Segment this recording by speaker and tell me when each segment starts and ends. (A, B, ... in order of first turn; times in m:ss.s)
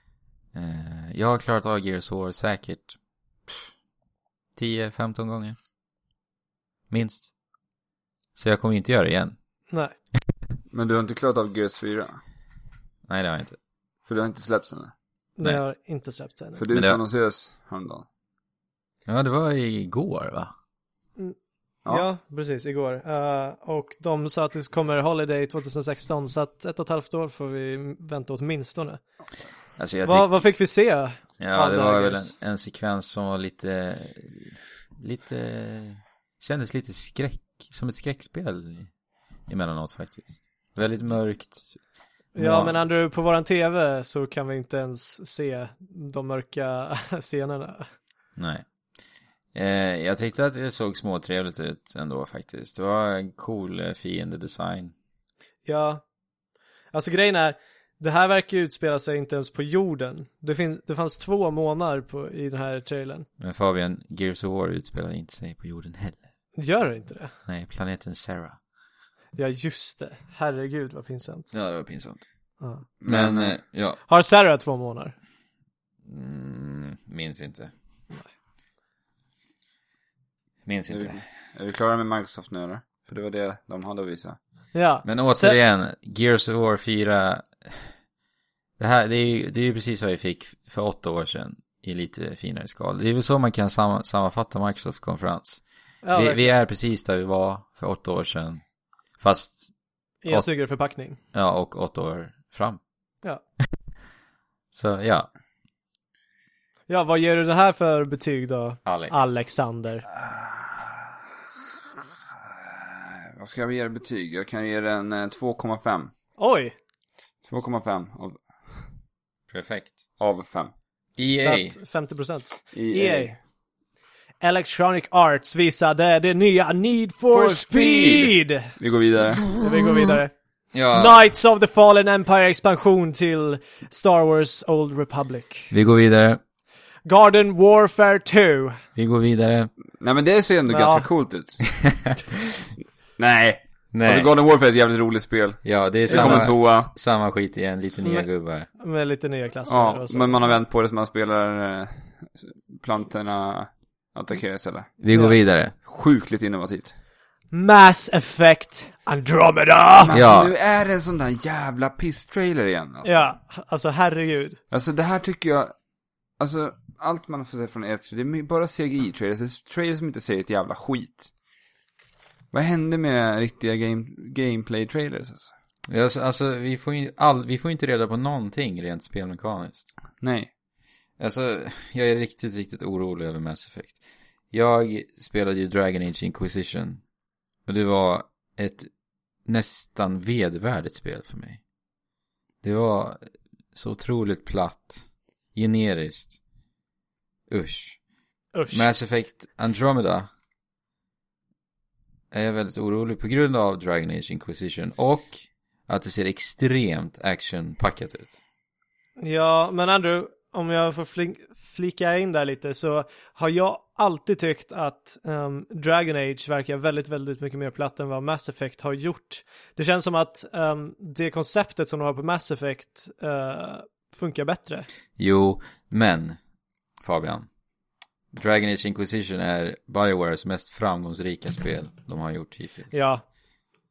0:00.5-0:03.7 A
0:04.6-0:05.6 A
0:06.9-0:07.3 A
0:08.4-0:09.4 A
0:10.7-0:12.2 B
0:13.1-0:13.6 A
0:14.0-0:14.9 B
0:15.4-0:16.6 C
0:16.6-0:18.0 B
0:16.7-0:17.0 A
0:19.0-0:20.5 A
0:21.9-0:29.0 C
0:29.8-0:30.4 A
0:30.0-0:32.3 C
0:31.4-0:38.9 A
0:39.5-0:41.8 A
0:42.3-0:47.9 C
0:42.4-0:42.8 A
0:48.4-0:48.6 A
0:49.5-0:54.9 A
0:55.6-0:56.0 C
0:56.9-1:03.2 C
1:03.4-1:06.2 A
1:06.6-1:07.3 C
1:07.4-1:08.6 A
1:09.4-1:11.5 C
1:11.5-1:12.2 A
1:12.6-1:12.9 C
1:13.0-1:13.6 B
1:13.0-1:14.0 A
1:14.0-1:15.1 C
1:16.0-1:17.7 A
1:20.6-1:21.2 A
1:20.9-1:24.4 B
1:24.7-1:25.6 C
1:25.0-1:27.9 A
1:28.8-1:38.6 A
1:36.0-1:36.5 C
1:39.2-1:39.7 A
1:40.2-1:41.2 C
1:40.3-1:40.6 A
1:41.3-1:42.8 A
1:44.7-1:45.3 A
1:46.9-1:50.0 C
1:48.8-1:49.4 A
1:50.2-1:51.0 B
1:52.7-1:56.1 B
1:56.4-1:56.7 C
1:57.4-1:58.9 B
1:59.5-2:00.0 A
2:00.2-2:00.7 B
2:01.2-2:01.8 A
2:01.4-2:03.3 C
2:02.7-2:03.4 B
2:04.4-2:08.7 C
2:07.3-2:09.5 B
2:09.5-2:15.7 C
2:10.7-2:11.2 A
2:15.7-2:16.4 A
2:17.0-2:18.8 C
2:19.0-2:19.7 A
2:20.0-2:21.8 B
2:20.7-2:21.0 C
2:23.2-2:26.9 B
2:23.9-2:24.3 A
2:25.6-2:28.7 A
2:26.1-2:26.5 C
2:28.0-2:30.6 C
2:29.7-2:35.0 B
2:35.0-2:35.7 A
2:35.1-2:35.4 C
2:35.8-2:37.0 B
2:37.5-2:40.2 C
2:40.0-2:43.4 B
2:40.1-2:40.5 A
2:43.0-2:44.6 C
2:44.7-2:45.7 B
2:46.4-2:51.3 B
2:52.5-2:55.5 B
2:55.9-2:59.9 A
3:00.2-3:00.5 B
3:01.2-3:07.0 A
3:07.6-3:08.9 A
3:09.4-3:11.6 A
3:12.6-3:13.2 A
3:13.7-3:16.4 A
3:17.5-3:18.0 A
3:18.5-3:18.9 C
3:18.7-3:20.3 A
3:22.3-3:28.4 A
3:29.2-3:44.9 C
3:45.2-3:46.4 A
3:47.0-3:47.5 A
3:48.3-3:53.0 A
3:52.9-3:53.2 C